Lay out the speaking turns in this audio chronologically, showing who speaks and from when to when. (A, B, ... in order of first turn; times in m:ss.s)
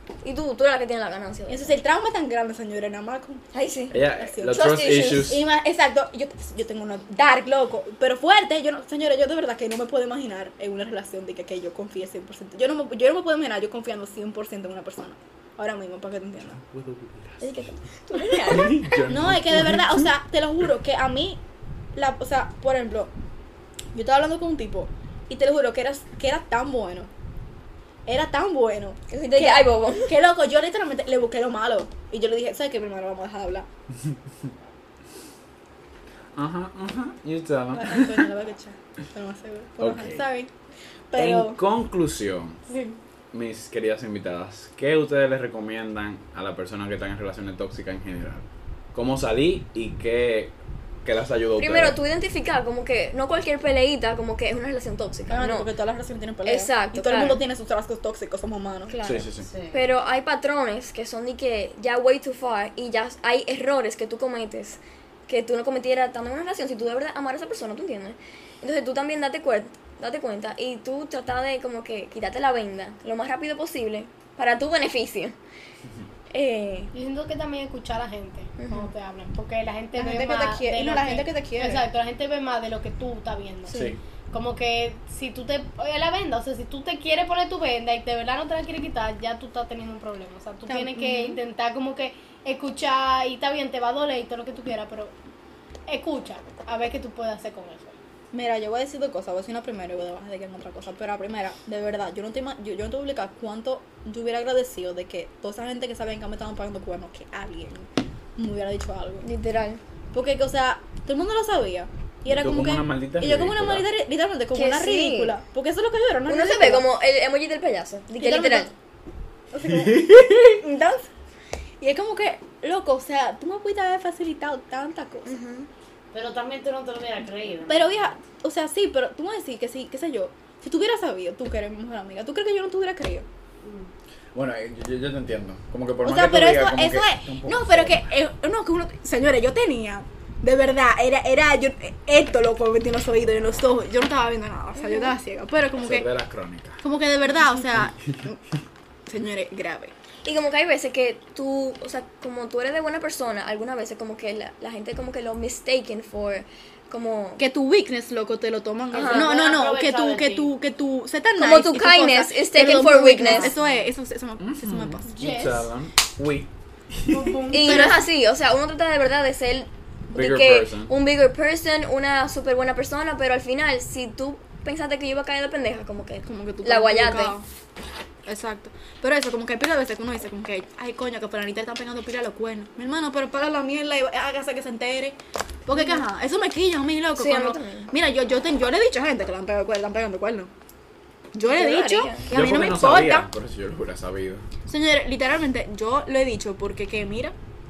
0:00.2-0:01.7 A
0:01.5-0:03.4 B
0:03.5-0:05.3 A
0:03.9-0:05.4 C
0:04.0-0:16.6 B
0:16.4-0:20.1 C
0:17.4-0:19.0 A
0:19.1-0:21.4 B
0:21.9-0:23.1 B
0:23.9-0:27.1 B
0:28.1-0:33.7 B
0:29.1-0:30.1 A
0:36.4-0:38.2 C
0:37.7-0:40.5 B
0:39.8-0:40.2 C
0:41.1-0:41.6 B
0:41.1-0:42.6 C
0:43.3-0:52.0 C
0:51.6-0:55.7 A
0:55.3-0:58.9 B
0:56.4-0:57.4 A
0:58.9-1:15.4 A
0:59.0-0:59.5 C
0:59.4-0:59.8 D
1:16.3-1:16.9 A
1:16.9-1:35.1 E
1:18.6-1:18.9 A
1:20.0-1:21.8 B
1:23.7-1:23.9 A
1:23.7-1:24.0 C
1:30.7-1:31.4 B
1:35.9-1:37.9 E
1:38.3-1:49.3 B
1:49.2-1:49.8 A
1:50.1-1:56.9 B
1:52.3-1:53.8 C
1:54.5-1:55.4 A
1:56.3-1:58.7 A
1:58.2-1:58.7 B
1:59.5-2:01.1 B
1:59.7-2:00.6 C
2:01.8-2:05.4 B
2:05.2-2:05.7 A
2:06.1-2:07.9 D
2:07.7-2:13.2 B
2:13.6-2:13.9 D
2:14.3-2:18.1 C
2:16.0-2:26.1 B
2:24.8-2:25.1 A
2:25.8-2:26.8 C
2:26.8-2:28.4 B
2:27.8-2:28.2 C
2:29.1-2:29.9 B
2:30.2-2:37.4 A
2:37.4-2:45.2 B
2:38.9-2:39.3 A
2:38.9-2:40.5 D
2:41.4-2:43.5 A
2:43.2-2:43.8 D
2:44.4-2:47.4 C
2:45.1-2:45.6 E
2:47.1-2:48.0 E
2:47.5-2:57.3 A
2:47.6-2:48.0 B
2:50.1-2:50.9 C
2:56.2-2:57.4 B
2:58.2-3:10.5 B
3:07.2-3:07.9 A
3:11.3-3:13.3 B
3:11.5-3:12.2 A
3:12.3-3:14.4 C
3:14.7-3:17.3 B